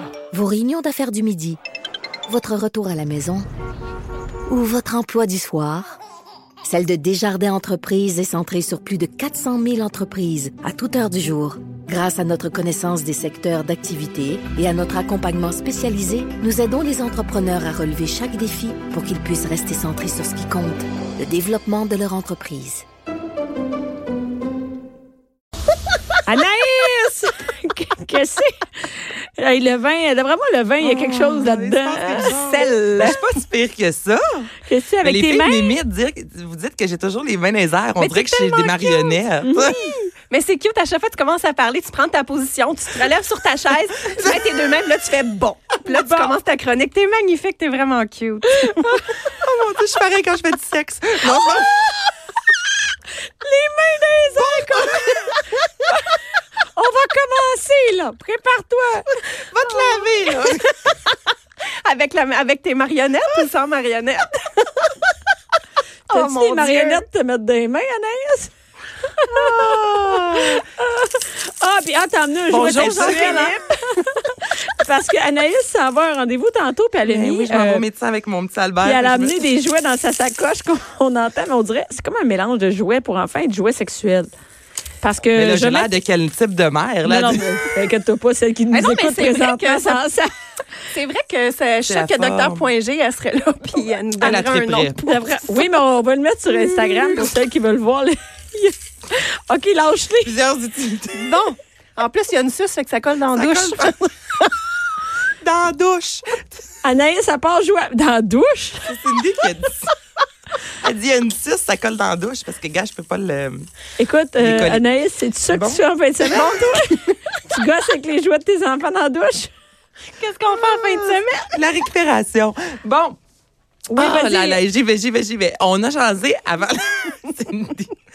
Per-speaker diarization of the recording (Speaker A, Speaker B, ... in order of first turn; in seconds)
Speaker A: 0.3-1.6, 2.3-3.5, 4.5-6.0, 6.6-22.9
Speaker B: 26.2-33.1, 34.7-35.8, 39.4-39.9, 45.9-46.3, 48.6-49.0, 53.4-56.0, 56.7-59.4, 66.1-68.5, 69.2-69.6, 70.1-77.8, 78.8-84.3, 85.0-85.9, 87.0-90.3, 95.0-100.3, 106.8-108.9, 114.0-119.5, 123.9-124.6
Speaker C: 30.8-34.5, 35.0-39.8, 49.4-52.0, 54.4-55.3, 59.5-60.8, 72.6-73.4, 77.0-79.5, 85.3-87.5, 91.9-92.7, 94.2-95.0, 100.2-101.3, 103.3-103.9, 105.4-106.5, 108.9-109.9, 110.8-113.7, 114.4-114.8, 115.5-116.7, 121.5-123.2, 123.9-127.9
Speaker D: 32.4-33.2, 38.0-39.2, 40.3-49.0, 59.6-61.2, 61.8-65.1, 66.1-67.0, 69.3-70.5, 72.5-73.6, 88.7-90.1, 90.9-95.6, 96.7-97.1, 101.2-104.5, 120.2-121.6